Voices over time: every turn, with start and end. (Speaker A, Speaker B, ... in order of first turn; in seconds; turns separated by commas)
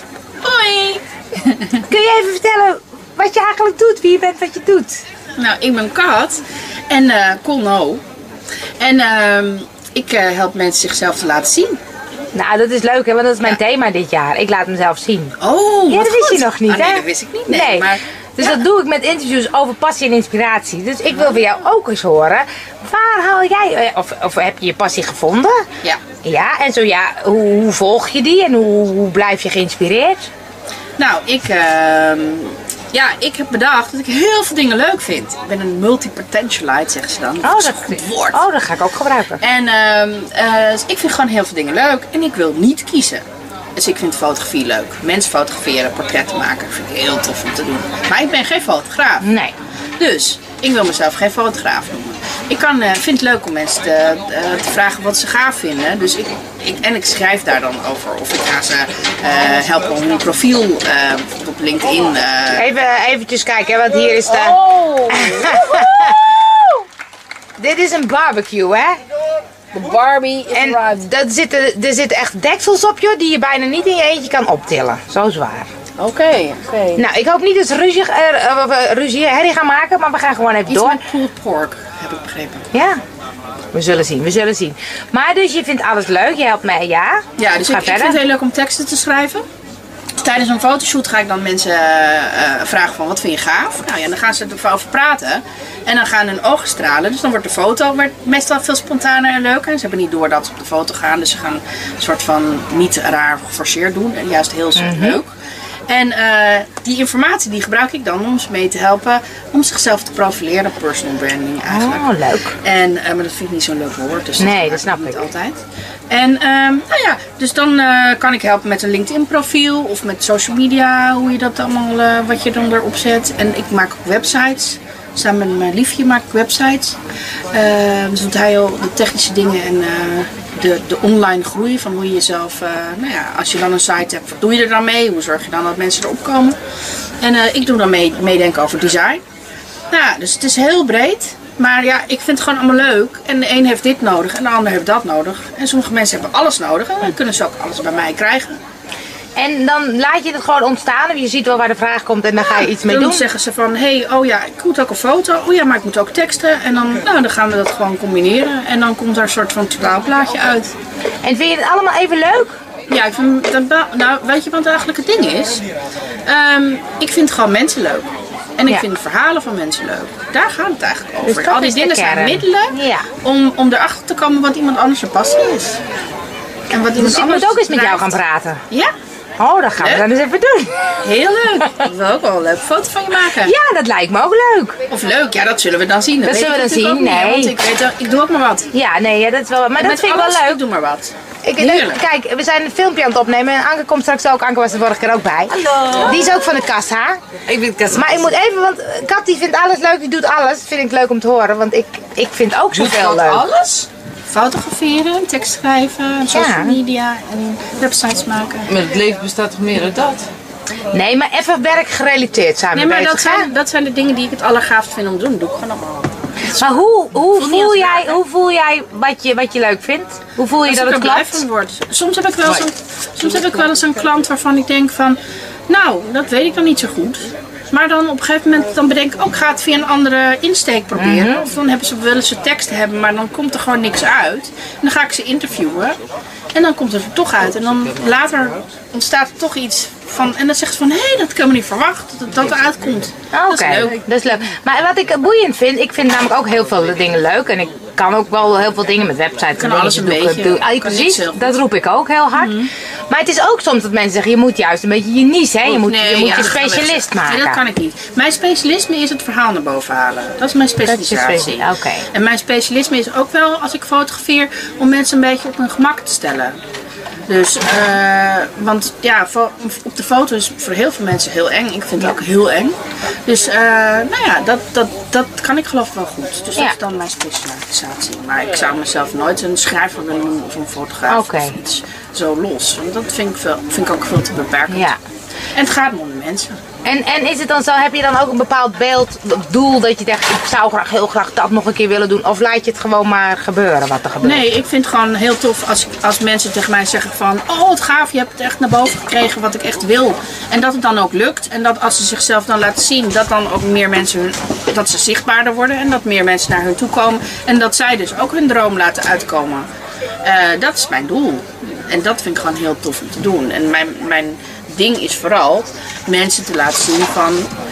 Speaker A: 0.4-1.9, Speaker B: 1.8-5.0, Speaker A: 5.4-8.0, Speaker A: 8.8-11.8, Speaker B: 12.3-15.3, Speaker A: 15.4-18.6, Speaker B: 15.9-25.6, Speaker B: 26.2-30.3, Speaker A: 31.0-38.4, Speaker B: 37.4-39.4, Speaker A: 39.4-43.2, Speaker A: 43.8-49.2, Speaker B: 49.2-49.5, Speaker A: 50.0-62.7, Speaker B: 62.5-64.6, Speaker A: 64.2-66.8, Speaker B: 65.1-66.2, Speaker B: 67.6-69.0, Speaker A: 69.7-71.0, Speaker B: 70.5-75.7, Speaker A: 76.0-77.0, Speaker B: 77.0-81.0, Speaker A: 80.7-82.7, Speaker B: 82.7-83.0, Speaker B: 83.7-88.2, Speaker A: 87.4-89.4, Speaker A: 90.2-105.3, Speaker B: 104.8-105.2, Speaker A: 105.9-127.0, Speaker B: 111.7-112.5, Speaker B: 114.4-115.2, Speaker A: 127.5-136.6, Speaker A: 137.2-139.2, Speaker A: 139.9-148.6, Speaker B: 149.4-153.2, Speaker A: 152.4-160.7, Speaker B: 161.2-162.6, Speaker A: 162.9-165.7, Speaker A: 166.2-175.8, Speaker B: 171.2-173.1, Speaker A: 176.7-178.2, Speaker B: 177.0-178.6, Speaker B: 179.4-180.7, Speaker A: 179.8-180.1, Speaker A: 181.0-183.5, Speaker B: 183.4-184.8, Speaker A: 184.9-188.7, Speaker B: 186.2-187.5, Speaker B: 188.7-190.6, Speaker A: 189.8-192.0, Speaker B: 191.4-197.2, Speaker C: 195.6-196.1, Speaker C: 197.5-198.1, Speaker B: 197.9-203.4, Speaker A: 202.7-208.7, Speaker B: 206.3-206.8, Speaker C: 208.7-210.3, Speaker B: 210.9-213.5, Speaker A: 212.7-216.8, Speaker B: 216.6-221.4, Speaker A: 217.3-218.2, Speaker A: 220.6-236.0, Speaker B: 231.0-231.5, Speaker A: 236.5-244.1, Speaker B: 243.3-257.6, Speaker A: 249.6-251.6, Speaker A: 252.3-252.7, Speaker A: 255.7-266.6, Speaker B: 260.9-262.1, Speaker A: 267.3-284.9, Speaker B: 281.1-281.5, Speaker B: 284.7-285.0, Speaker A: 285.5-286.6, Speaker B: 286.8-294.4, Speaker A: 294.2-309.7, Speaker A: 310.2-317.5